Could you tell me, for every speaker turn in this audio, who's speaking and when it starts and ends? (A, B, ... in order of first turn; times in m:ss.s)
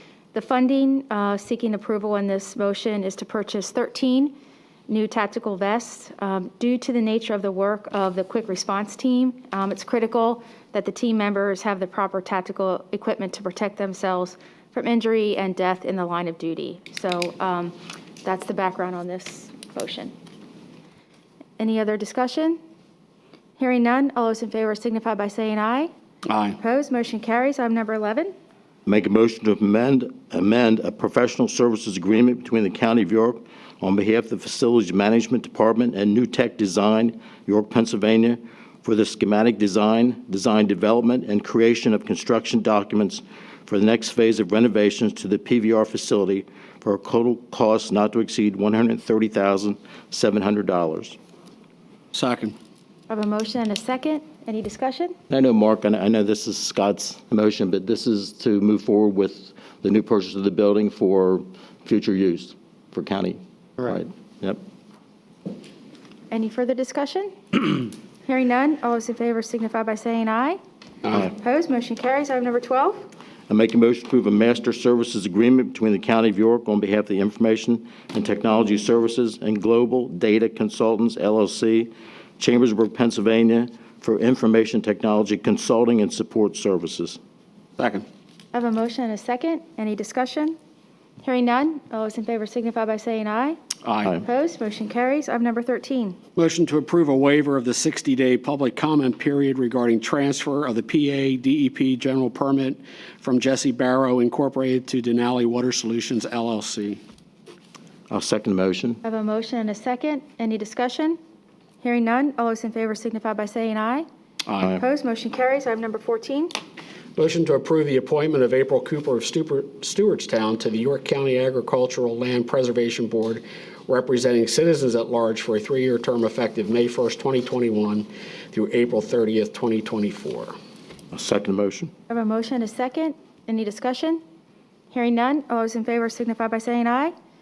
0:00.3-0:04.3 A
0:04.9-0:20.1 A
0:21.6-0:22.6 A
0:23.6-0:25.9 A
0:26.3-0:26.6 B
0:26.6-0:28.3 A
0:28.8-0:51.2 C
0:52.1-0:52.5 B
0:53.1-0:55.2 A
0:55.3-1:04.6 C
1:06.3-1:13.0 A
1:13.5-1:27.2 C
1:27.8-1:28.0 B
1:28.5-1:30.6 A
1:31.2-1:33.6 A
1:33.8-1:34.2 B
1:34.1-1:36.2 A
1:36.4-1:47.0 B
1:48.1-1:49.0 C
1:49.0-1:51.2 A
1:51.8-1:54.1 A
1:54.5-1:54.8 B
1:54.6-1:56.5 A
1:57.2-2:10.5 B
2:11.1-2:11.9 C
2:12.1-2:14.2 A
2:14.9-2:17.1 A